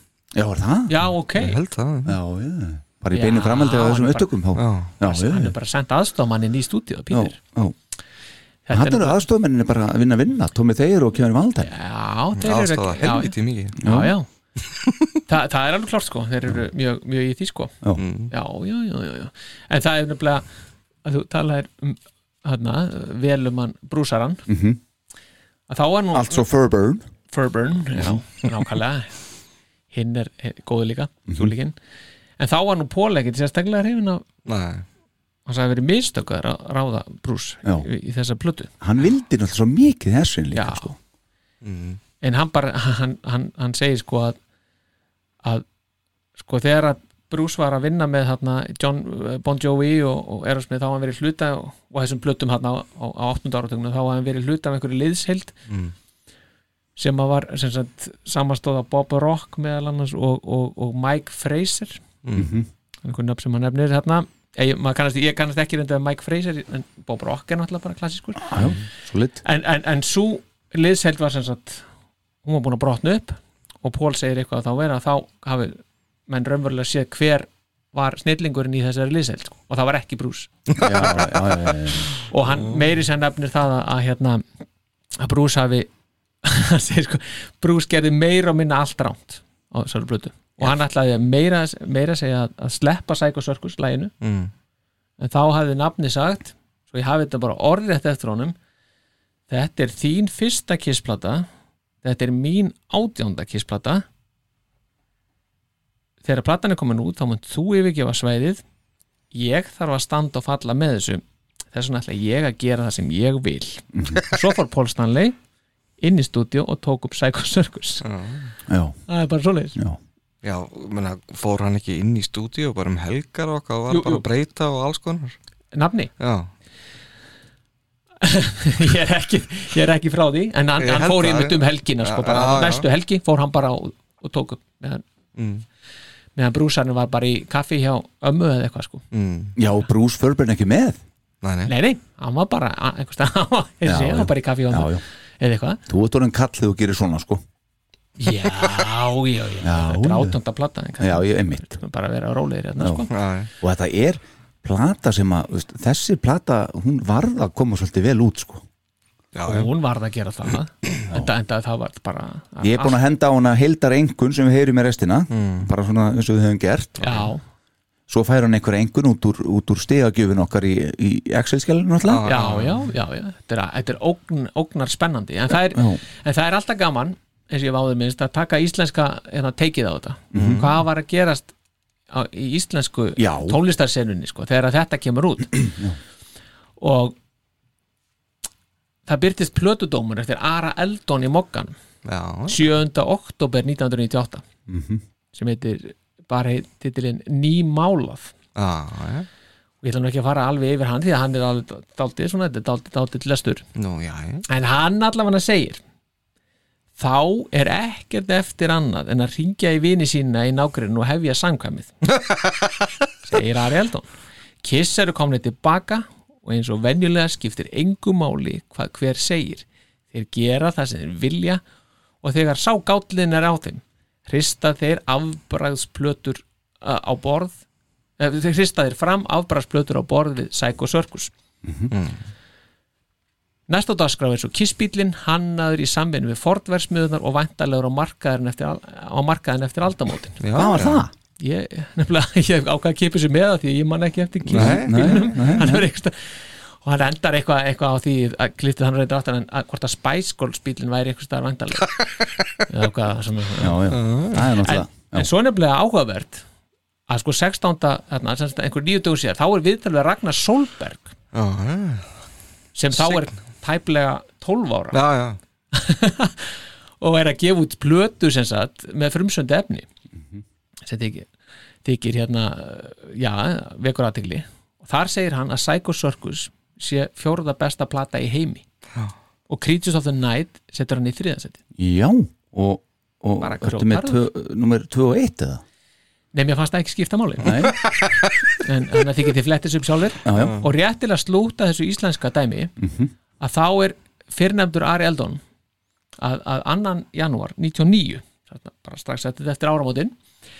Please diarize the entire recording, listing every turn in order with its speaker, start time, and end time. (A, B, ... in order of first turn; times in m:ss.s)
0:00.3-0:00.9 A
0:00.9-0:01.6 B
0:01.3-0:02.2 C
0:02.0-0:05.5 A
0:03.1-0:04.3 B
0:04.5-0:04.9 C
0:05.0-0:07.4 B
0:07.1-0:07.7 A
0:08.7-0:09.2 B
0:08.7-0:11.7 A
0:11.6-0:14.3 B
0:12.4-0:13.8 C
0:13.8-0:14.1 A
0:14.7-0:15.2 C
0:15.3-0:17.7 B
0:18.0-0:18.3 C
0:18.3-0:20.4 B
0:21.0-0:24.4 B
0:24.5-0:24.8 A
0:25.7-0:26.4 B
0:26.1-0:27.1 A
0:27.3-0:29.2 B
0:29.9-0:31.8 B
0:31.3-0:31.5 A
0:32.4-0:34.2 B
0:34.4-0:34.8 C
0:35.4-0:38.7 B
0:38.8-0:41.0 A
0:40.5-0:40.9 B
0:41.6-0:42.0 C
0:42.2-0:44.4 B
0:46.4-0:55.6 B
0:55.7-0:55.9 C
0:57.0-1:02.0 B
1:02.2-1:02.5 C
1:02.3-1:02.7 A
1:03.0-1:08.7 B
1:08.4-1:09.4 A
1:09.4-1:11.8 B
1:12.4-1:20.5 B
1:20.8-1:22.1 A
1:20.8-1:21.4 C
1:22.3-1:24.4 B
1:25.2-1:25.9 B
1:26.4-1:34.1 B
1:34.2-1:34.5 C
1:35.2-1:38.6 B
1:39.5-1:41.5 B
1:42.0-1:44.0 B
1:46.2-1:48.6 B
1:49.3-1:55.4 B
1:53.9-1:54.2 A
1:56.0-1:58.0 B
1:58.0-1:58.5 C
1:58.7-1:59.0 A
1:59.1-1:59.8 B
2:00.4-2:05.4 C
2:03.9-2:04.3 B
2:05.7-2:06.1 B
2:06.2-2:06.5 C
2:08.2-2:15.0 B
2:10.8-2:12.9 C
2:15.4-2:15.6 C
2:16.3-2:19.0 B
2:19.1-2:19.5 C
2:19.6-2:21.0 A
2:21.4-2:21.7 C
2:21.6-2:25.8 B
2:23.8-2:25.0 A
2:25.9-2:27.4 A
2:28.2-2:33.1 B
2:29.6-2:30.4 A
2:31.0-2:31.8 A
2:32.8-2:33.0 A
2:33.1-2:33.5 C
2:33.6-2:38.6 A
2:39.3-2:39.7 C
2:39.4-2:43.0 B
2:42.6-2:47.0 A
2:45.3-2:45.7 C
2:47.0-2:47.2 C
2:47.0-2:47.4 B
2:48.1-2:52.2 A
2:52.0-2:52.9 C
2:52.2-3:01.5 B
2:55.7-2:56.0 A
3:00.3-3:00.6 A
3:00.3-3:00.7 C
3:02.1-3:05.7 B
3:03.2-3:03.6 A
3:05.6-3:06.0 A
3:06.8-3:07.1 B
3:09.0-3:11.7 B
3:12.0-3:12.7 C
3:12.5-3:14.4 B
3:14.7-3:15.0 A
3:15.3-3:18.3 B
3:18.6-3:19.3 C
3:19.8-3:23.6 B
3:23.8-3:24.4 C
3:24.5-3:25.8 B
3:27.0-3:32.0 B
3:33.2-3:34.1 B
3:34.6-3:41.6 B
3:42.2-3:47.6 B
3:48.2-3:51.3 B
3:51.6-3:51.9 A
3:51.9-3:52.2 C
3:53.7-4:00.4 B
4:00.4-4:01.0 C
4:00.5-4:01.1 A
4:01.4-4:11.9 B
4:04.4-4:05.4 C
4:04.6-4:05.9 A
4:12.7-4:13.8 B
4:13.6-4:15.3 A
4:13.9-4:14.5 C
4:14.6-4:16.4 B
4:17.1-4:21.1 B
4:21.3-4:22.1 C
4:22.7-4:25.0 B
4:22.9-4:23.2 C
4:24.9-4:25.4 C
4:25.7-4:29.8 B
4:30.9-4:31.3 B
4:31.8-4:38.6 B
4:39.5-4:41.6 B
4:41.8-4:45.6 A
4:43.4-4:44.2 B
4:46.3-4:47.7 B
4:47.4-4:47.8 A
4:47.8-4:48.2 C
4:48.6-4:52.7 B
4:50.2-4:50.6 A
4:52.8-4:53.1 A
4:53.4-4:55.4 B
4:56.2-5:00.2 B